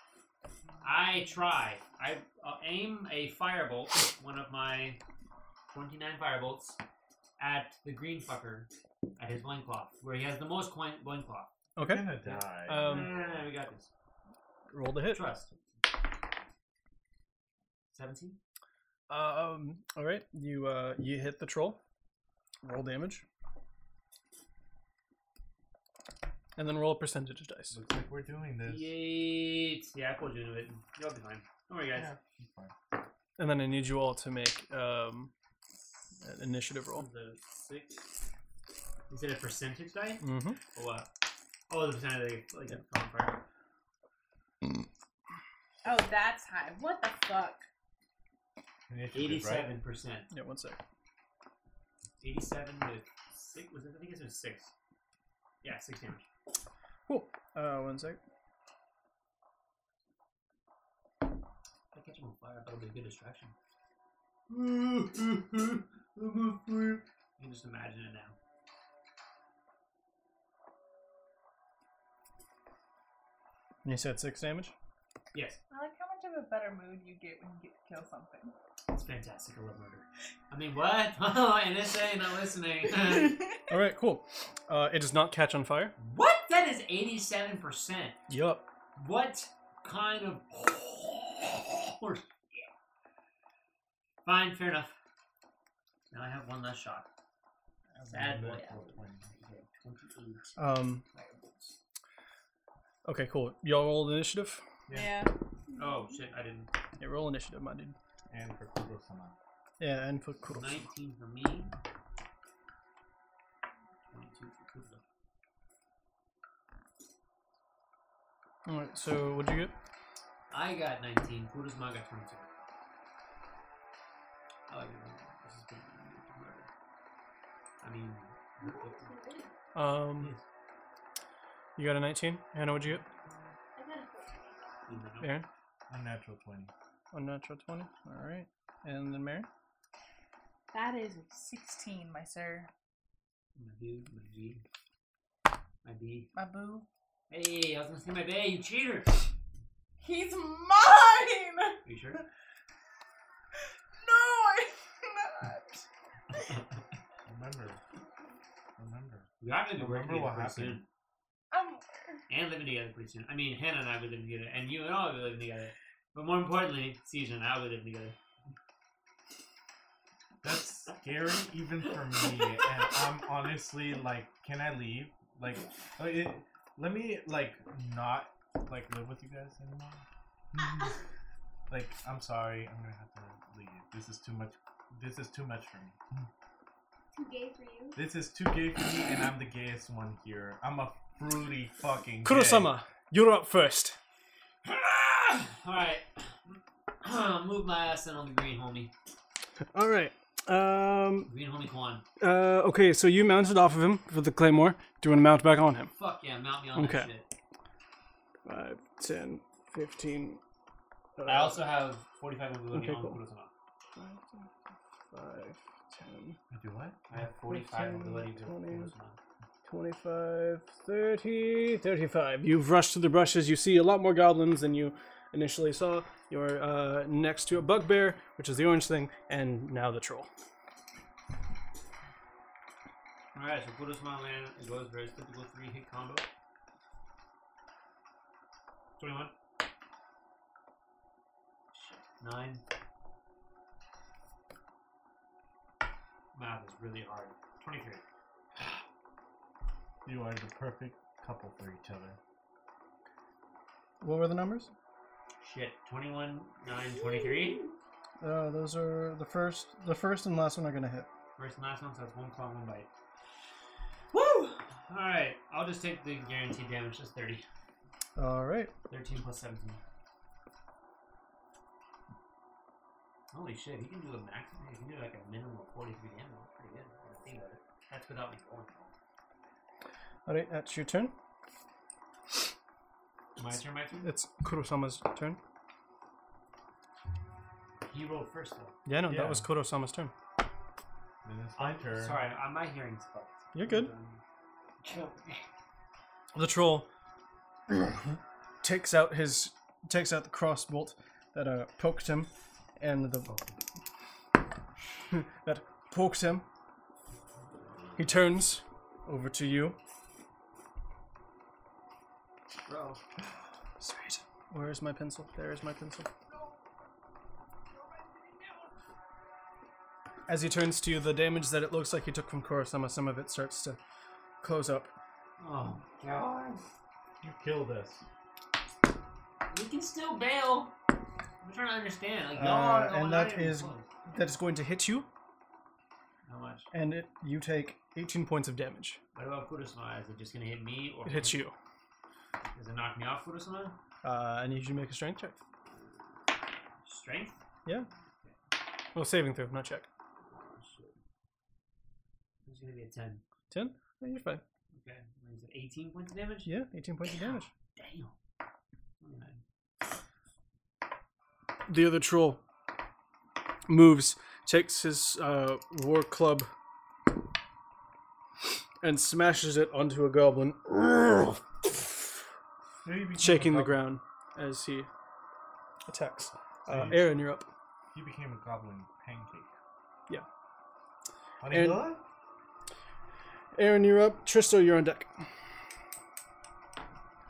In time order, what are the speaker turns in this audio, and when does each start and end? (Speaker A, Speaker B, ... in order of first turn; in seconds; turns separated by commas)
Speaker A: 0.8-5.0, Speaker A: 5.7-6.8, Speaker A: 7.4-11.5, Speaker B: 11.8-13.2, Speaker C: 11.8-13.1, Speaker A: 12.2-13.9, Speaker B: 14.7-15.2, Speaker A: 15.1-15.5, Speaker A: 17.9-18.4, Speaker B: 19.1-21.8, Speaker B: 22.6-23.2, Speaker B: 26.6-27.8, Speaker C: 27.7-28.9, Speaker A: 28.6-32.1, Speaker C: 31.9-32.7, Speaker B: 33.4-35.3, Speaker B: 36.2-37.1, Speaker A: 36.9-38.1, Speaker A: 39.1-40.2, Speaker B: 40.2-40.6, Speaker A: 40.7-41.1, Speaker A: 41.7-43.4, Speaker D: 45.8-47.6, Speaker C: 48.9-49.7, Speaker A: 49.1-50.3, Speaker B: 50.3-50.8, Speaker A: 52.2-54.7, Speaker A: 55.6-56.3, Speaker B: 57.1-58.2, Speaker A: 61.9-63.5, Speaker A: 64.5-68.4, Speaker B: 73.8-74.7, Speaker A: 75.3-75.6, Speaker D: 75.7-78.5, Speaker A: 78.9-83.5, Speaker D: 83.0-83.5, Speaker B: 83.7-85.9, Speaker A: 86.0-88.2, Speaker B: 88.3-88.7, Speaker A: 89.0-92.7, Speaker A: 94.2-94.9, Speaker A: 96.1-97.1, Speaker C: 97.9-99.3, Speaker A: 98.0-100.5, Speaker B: 100.6-101.0, Speaker A: 101.1-101.8, Speaker B: 103.0-104.6, Speaker C: 104.9-105.2, Speaker D: 104.9-105.3, Speaker E: 105.7-106.2, Speaker A: 105.7-106.7, Speaker B: 107.0-107.9, Speaker C: 108.3-109.3, Speaker B: 109.8-110.8, Speaker A: 110.5-111.7, Speaker A: 114.1-115.0, Speaker B: 118.7-119.7, Speaker A: 120.5-122.5, Speaker A: 124.7-126.7, Speaker A: 127.8-129.1, Speaker E: 128.6-129.5, Speaker B: 129.7-130.3, Speaker A: 130.1-130.4, Speaker B: 131.8-133.0, Speaker E: 133.8-134.6, Speaker A: 134.9-135.3, Speaker B: 135.2-135.5, Speaker C: 135.9-136.7, Speaker B: 137.1-139.5, Speaker D: 140.7-142.7, Speaker A: 143.6-144.6, Speaker A: 145.8-146.3, Speaker D: 146.3-146.8, Speaker A: 147.3-149.2, Speaker D: 150.0-151.8, Speaker A: 151.8-152.2, Speaker D: 154.0-155.8, Speaker C: 157.2-157.8, Speaker C: 158.8-160.8, Speaker A: 159.4-160.8, Speaker D: 161.5-161.8, Speaker A: 162.3-168.2, Speaker C: 170.4-180.9, Speaker C: 181.7-186.0, Speaker E: 187.1-188.0, Speaker C: 187.9-192.7, Speaker B: 192.2-194.0, Speaker A: 194.6-198.9, Speaker B: 199.7-201.3, Speaker A: 201.3-202.0, Speaker B: 202.2-205.9, Speaker A: 205.9-207.3, Speaker B: 206.7-207.1, Speaker B: 208.4-210.4, Speaker B: 211.2-211.8, Speaker A: 211.2-213.5, Speaker B: 212.7-213.2, Speaker B: 213.9-214.5, Speaker B: 215.1-216.4, Speaker C: 216.5-217.0, Speaker A: 217.1-219.2, Speaker B: 217.4-218.9, Speaker B: 219.7-230.3, Speaker A: 233.3-236.3, Speaker A: 239.0-239.3, Speaker A: 241.7-242.6, Speaker A: 246.3-248.0, Speaker C: 250.0-252.2, Speaker B: 254.0-254.7, Speaker A: 255.4-257.7, Speaker E: 256.9-257.7, Speaker B: 258.2-261.1, Speaker A: 261.4-262.9, Speaker A: 264.1-267.4, Speaker B: 268.1-268.7, Speaker A: 268.9-269.8, Speaker A: 273.3-278.9, Speaker B: 280.2-281.1, Speaker A: 283.4-284.1, Speaker B: 284.0-285.4, Speaker A: 287.8-288.8, Speaker B: 288.9-290.1, Speaker C: 289.1-289.5, Speaker C: 291.2-292.2, Speaker A: 291.6-294.2, Speaker B: 293.5-293.9, Speaker A: 294.8-295.4, Speaker B: 296.3-296.9, Speaker B: 298.6-303.3, Speaker A: 303.2-303.6, Speaker B: 305.1-306.4, Speaker B: 308.0-309.8, Speaker A: 312.7-313.0, Speaker B: 313.8-316.1, Speaker B: 320.3-323.8, Speaker B: 324.4-324.9, Speaker A: 325.4-326.6, Speaker C: 327.2-328.1, Speaker A: 329.5-330.7, Speaker A: 331.4-333.9, Speaker B: 332.3-335.1, Speaker A: 336.2-336.7, Speaker B: 336.7-339.0, Speaker A: 339.1-341.4, Speaker B: 341.0-341.5, Speaker A: 342.5-343.8, Speaker B: 344.0-345.4, Speaker A: 346.8-347.4, Speaker B: 348.9-349.9, Speaker A: 350.3-350.9, Speaker A: 352.4-353.2, Speaker B: 353.5-354.4, Speaker A: 354.7-356.5, Speaker B: 356.4-357.5, Speaker A: 357.0-358.1, Speaker A: 359.0-359.4, Speaker B: 361.7-362.4, Speaker B: 363.7-366.5, Speaker B: 368.8-372.0, Speaker C: 372.8-373.9, Speaker B: 373.2-374.9, Speaker B: 375.9-377.5, Speaker C: 376.7-377.2, Speaker C: 377.9-379.5, Speaker C: 381.4-382.0, Speaker B: 381.5-381.9, Speaker B: 383.5-385.1